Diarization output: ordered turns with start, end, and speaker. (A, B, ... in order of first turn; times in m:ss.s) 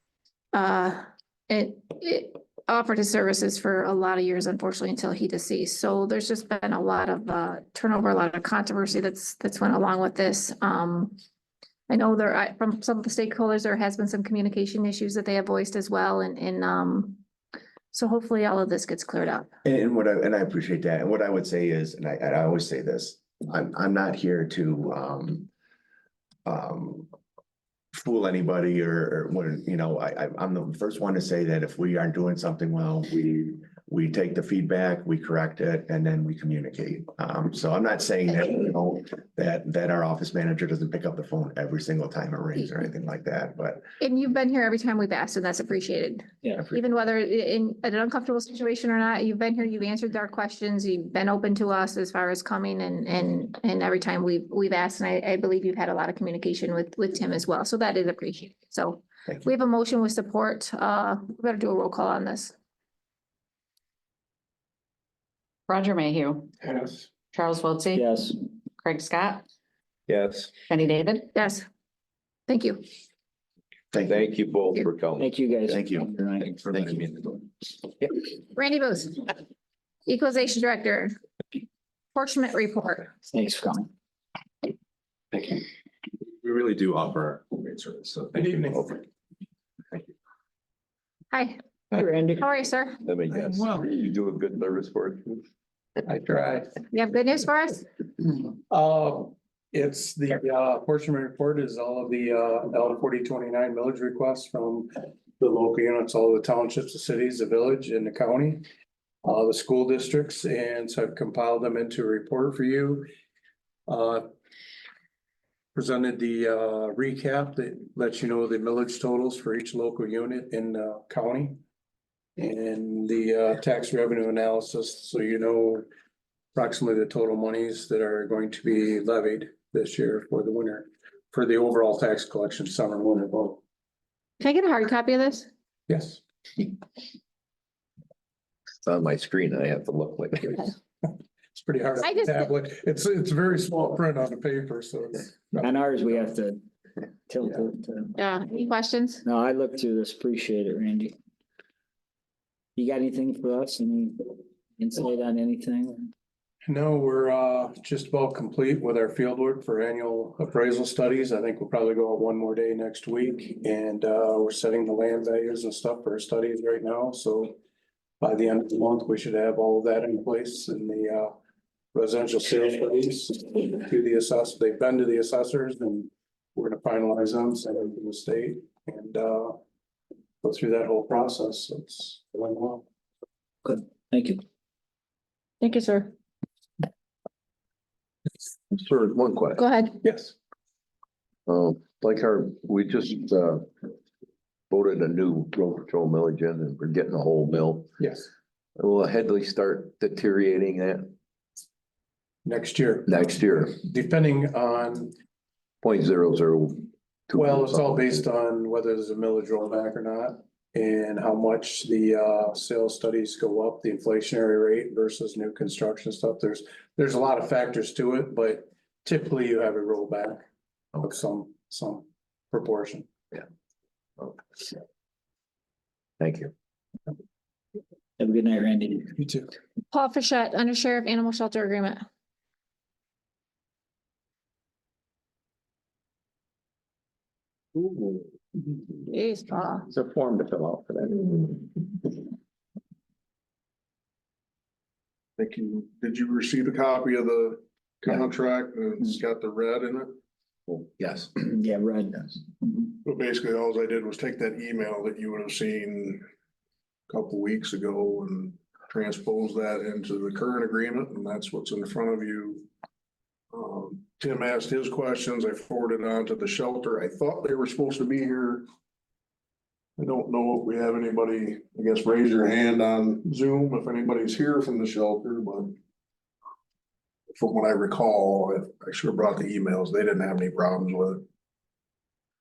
0:00.5-0:11.2 A
0:11.9-0:17.2 A
0:17.9-0:19.5 A
0:19.6-0:25.5 B
0:26.4-0:27.1 B
0:27.9-0:43.9 B
0:44.0-1:02.5 A
1:05.7-1:06.5 C
1:07.3-1:08.0 C
1:07.9-1:08.4 D
1:08.8-1:09.5 C
1:10.1-1:10.5 E
1:10.7-1:11.3 C
1:11.3-1:11.6 A
1:12.5-1:12.8 A
1:13.9-1:14.3 B
1:14.0-1:15.3 E
1:15.2-1:17.0 D
1:15.7-1:16.1 B
1:18.5-1:19.3 A
1:20.1-1:21.2 A
1:22.1-1:23.1 A
1:23.3-1:23.9 D
1:26.4-1:28.2 E
1:28.3-1:29.0 F
1:31.3-1:31.6 A
1:31.9-1:32.4 D
1:32.4-1:33.0 A
1:33.0-1:35.4 E
1:36.1-1:36.8 F
1:36.9-1:37.9 A
1:38.7-1:48.6 F
1:49.2-1:53.1 F
1:53.9-1:54.2 F
1:55.8-2:01.6 F
2:02.4-2:05.8 F
2:06.5-2:13.6 F
2:14.4-2:15.5 A
2:15.9-2:16.2 F
2:18.8-2:20.7 E
2:21.6-2:26.2 F
2:22.0-2:22.5 A
2:25.6-2:26.6 D
2:27.3-2:28.1 D
2:28.2-2:29.2 A
2:29.2-2:31.2 D
2:32.8-2:36.1 D
2:36.6-2:47.6 F
2:48.2-2:51.3 F
2:51.9-2:59.6 F
3:00.4-3:02.8 F
3:03.6-3:04.4 D
3:05.6-3:06.1 A
3:08.7-3:09.6 E
3:09.6-3:10.0 A
3:10.0-3:10.3 F
3:11.5-3:13.7 E
3:14.7-3:17.9 E
3:18.0-3:18.3 F
3:18.8-3:21.2 E
3:22.4-3:25.1 F
3:23.1-3:23.8 E
3:25.8-3:28.1 E
3:27.3-3:40.4 F
3:41.0-3:43.1 F
3:46.2-3:46.5 E
3:48.2-3:49.1 D
3:49.2-3:49.5 F
3:49.9-3:52.1 A
3:57.8-3:58.8 B
3:59.1-3:59.9 A
3:59.9-4:02.1 B
4:05.4-4:10.2 G
4:11.0-4:12.9 D
4:13.0-4:16.2 G
4:17.1-4:22.7 G
4:23.5-4:28.6 G
4:30.0-4:35.8 G
4:37.4-4:41.2 G